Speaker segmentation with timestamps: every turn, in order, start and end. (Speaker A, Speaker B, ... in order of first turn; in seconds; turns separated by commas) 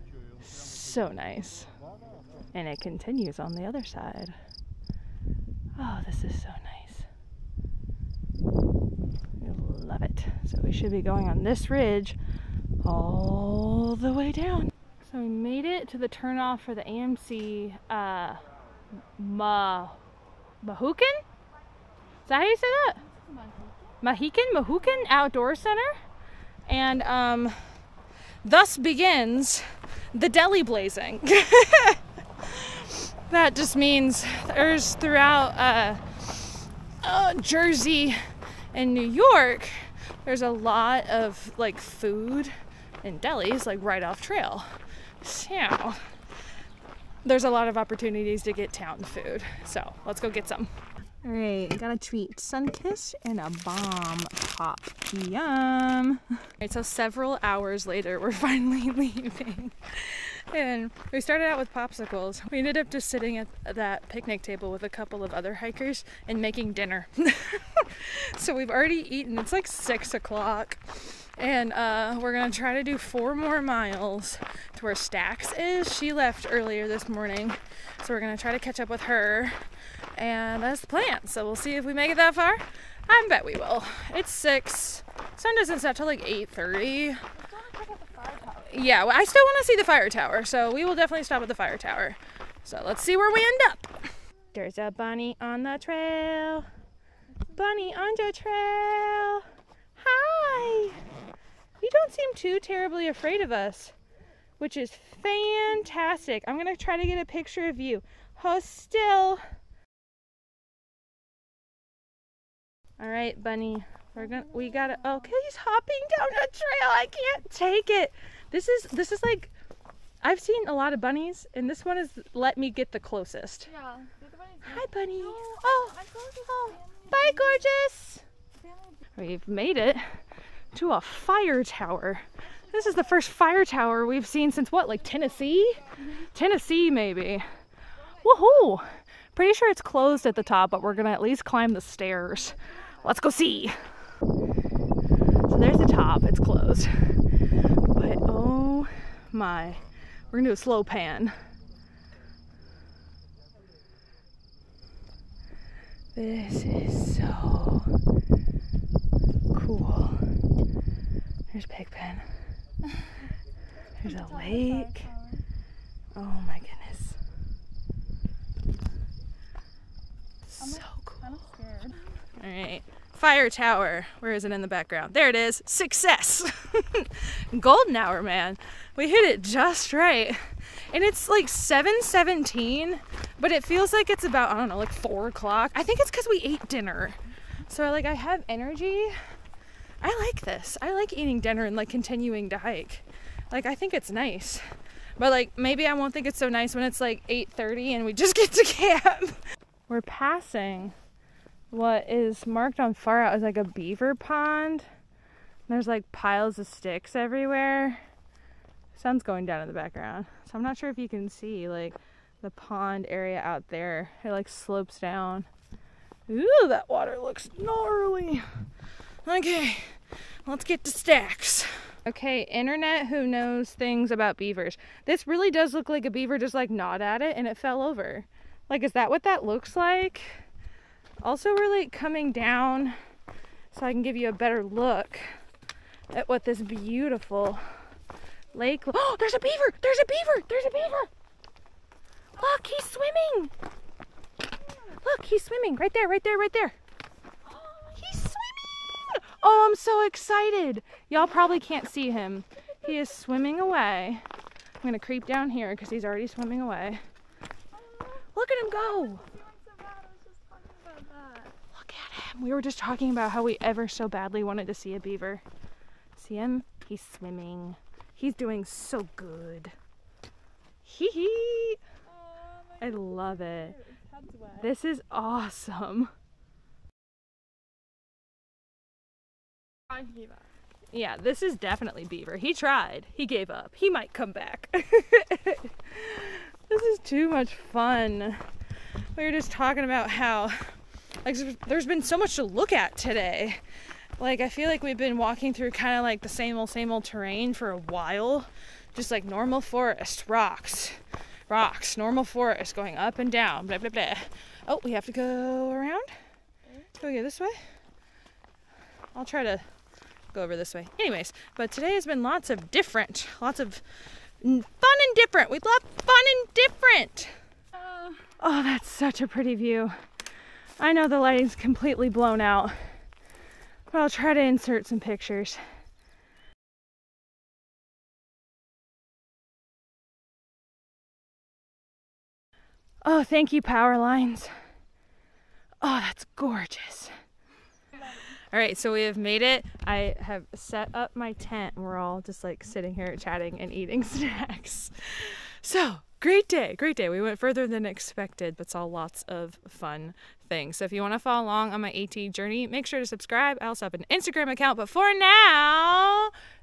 Speaker A: 0.4-1.7, Speaker A: 2.5-4.4, Speaker A: 5.8-7.1, Speaker A: 9.4-12.2, Speaker A: 12.8-18.5, Speaker A: 19.1-20.0, Speaker A: 20.6-21.2, Speaker A: 22.2-23.0, Speaker B: 23.4-23.7, Speaker A: 24.0-26.0, Speaker A: 26.6-27.6, Speaker A: 28.4-44.7, Speaker A: 45.2-46.1, Speaker A: 47.2-50.7, Speaker A: 51.2-79.6, Speaker A: 80.1-87.2, Speaker B: 87.5-88.7, Speaker A: 88.6-96.7, Speaker A: 97.5-101.0, Speaker A: 101.8-103.9, Speaker A: 104.6-109.4, Speaker A: 113.0-119.5, Speaker A: 120.2-123.8, Speaker B: 123.7-124.7, Speaker A: 124.6-128.2, Speaker A: 129.2-130.0, Speaker A: 130.7-137.4, Speaker A: 138.1-143.8, Speaker A: 145.4-147.2, Speaker A: 147.9-151.3, Speaker A: 156.1-157.9, Speaker A: 159.5-160.2, Speaker A: 161.5-162.3, Speaker A: 164.0-165.1, Speaker B: 164.4-165.4, Speaker A: 166.2-167.2, Speaker A: 170.5-171.4, Speaker B: 170.8-172.0, Speaker A: 172.4-189.2, Speaker A: 190.0-194.6, Speaker A: 195.2-200.9, Speaker A: 201.7-204.9, Speaker A: 205.7-208.0, Speaker A: 208.9-215.5, Speaker A: 216.3-218.4, Speaker A: 219.2-230.4, Speaker A: 231.2-233.0, Speaker A: 233.7-235.3, Speaker A: 236.1-237.6, Speaker A: 238.5-241.1, Speaker A: 242.3-243.5, Speaker A: 244.9-246.8, Speaker A: 247.8-254.2, Speaker A: 254.8-257.0, Speaker A: 258.3-259.3, Speaker B: 259.2-261.5, Speaker A: 261.7-265.4, Speaker A: 266.1-269.7, Speaker A: 270.8-271.8, Speaker B: 272.2-274.6, Speaker A: 272.8-273.8, Speaker A: 274.5-276.1, Speaker B: 279.9-280.4, Speaker A: 280.9-288.4, Speaker A: 289.1-293.6, Speaker A: 294.2-306.1, Speaker A: 306.9-307.6, Speaker A: 309.1-309.6, Speaker A: 310.3-313.8, Speaker A: 314.4-317.4, Speaker A: 318.3-319.9, Speaker A: 320.8-322.9, Speaker A: 323.9-325.6, Speaker A: 333.0-334.5, Speaker A: 335.8-337.1, Speaker A: 338.5-356.3